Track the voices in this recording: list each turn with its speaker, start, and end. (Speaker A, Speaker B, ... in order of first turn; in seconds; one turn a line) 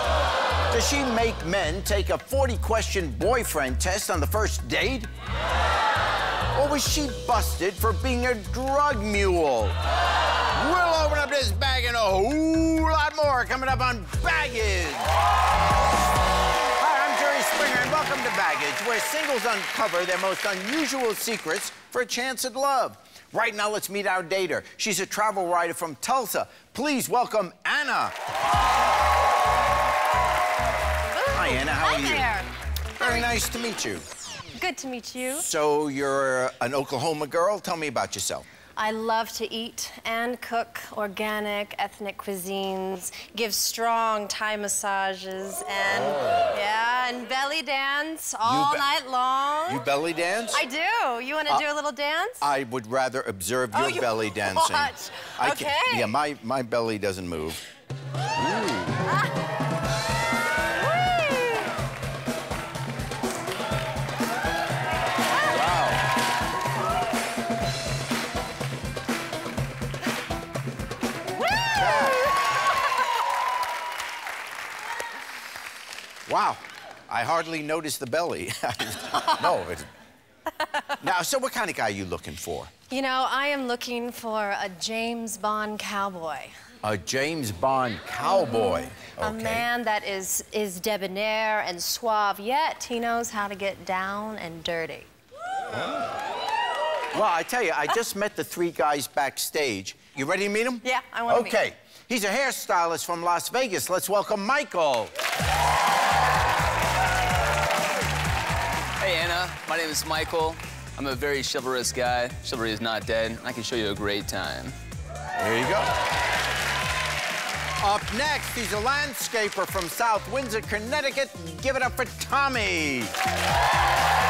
Speaker A: 0.7-5.1
Speaker A: 6.5-9.8
Speaker A: 10.5-15.1
Speaker A: 16.8-28.1
Speaker B: 31.1-33.3
Speaker A: 31.3-32.3
Speaker A: 33.0-34.0
Speaker B: 34.5-35.5
Speaker A: 35.4-38.5
Speaker B: 38.8-49.9
Speaker A: 45.9-46.5
Speaker A: 48.4-48.9
Speaker A: 49.7-50.6
Speaker B: 50.5-52.5
Speaker A: 52.4-57.6
Speaker B: 53.7-56.1
Speaker A: 58.3-59.0
Speaker B: 60.9-61.7
Speaker A: 65.5-66.0
Speaker A: 71.7-72.3
Speaker A: 76.3-79.9
Speaker A: 81.0-82.7
Speaker B: 82.9-86.5
Speaker A: 86.8-89.7
Speaker B: 88.3-95.1
Speaker A: 95.7-96.1
Speaker A: 97.1-105.1
Speaker B: 100.8-101.6
Speaker C: 109.0-114.8
Speaker A: 115.3-115.9
Speaker A: 117.8-123.1